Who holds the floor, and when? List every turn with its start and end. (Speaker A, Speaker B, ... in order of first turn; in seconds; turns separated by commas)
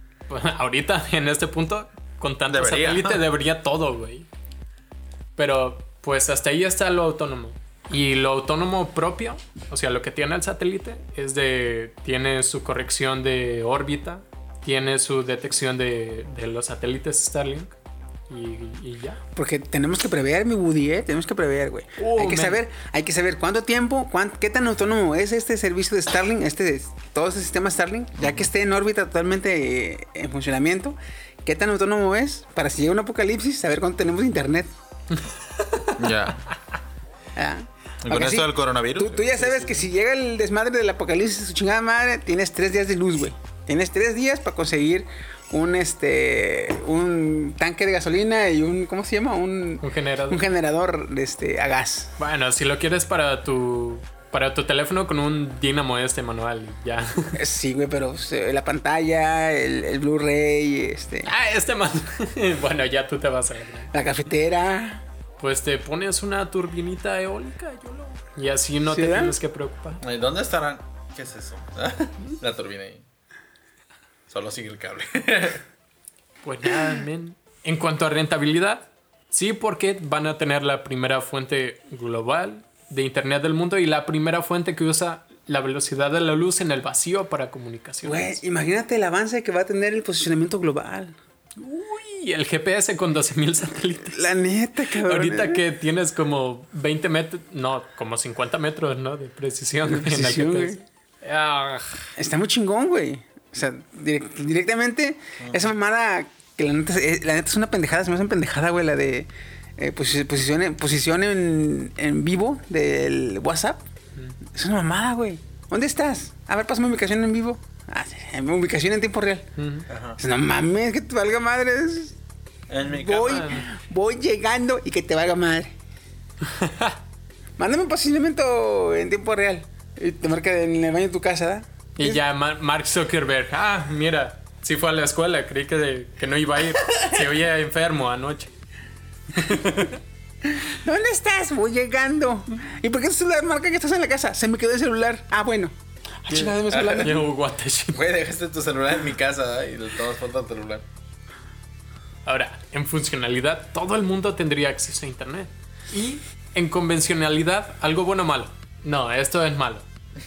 Speaker A: 0.3-4.3, Speaker B: 2.5-3.2, Speaker A: 5.3-17.7, Speaker A: 18.3-19.2, Speaker C: 19.3-34.7, Speaker A: 22.0-22.6, Speaker B: 28.2-28.5, Speaker A: 35.1-36.1, Speaker B: 36.0-36.4, Speaker C: 37.4-52.1, Speaker B: 38.0-39.4, Speaker A: 49.8-50.4, Speaker A: 52.2-57.4, Speaker C: 57.3-61.3, Speaker A: 61.2-63.9, Speaker C: 63.9-65.0, Speaker A: 65.4-70.0, Speaker C: 68.9-69.3, Speaker B: 70.0-73.0, Speaker B: 74.3-75.6, Speaker A: 76.4-88.4, Speaker C: 88.0-91.2, Speaker A: 91.6-94.3, Speaker C: 94.0-95.6, Speaker A: 94.9-102.1, Speaker C: 99.8-100.8, Speaker C: 102.2-113.8, Speaker B: 105.4-105.6, Speaker C: 114.5-119.5, Speaker A: 119.6-119.9, Speaker B: 119.9-120.2, Speaker C: 120.2-122.2, Speaker B: 122.7-123.5, Speaker C: 122.8-125.7, Speaker A: 123.2-123.7, Speaker A: 126.4-127.0, Speaker C: 127.6-132.2, Speaker A: 132.0-138.5, Speaker A: 139.3-140.0, Speaker C: 140.5-147.2, Speaker A: 146.3-148.0, Speaker B: 146.7-147.2, Speaker B: 147.9-150.8, Speaker A: 152.2-159.8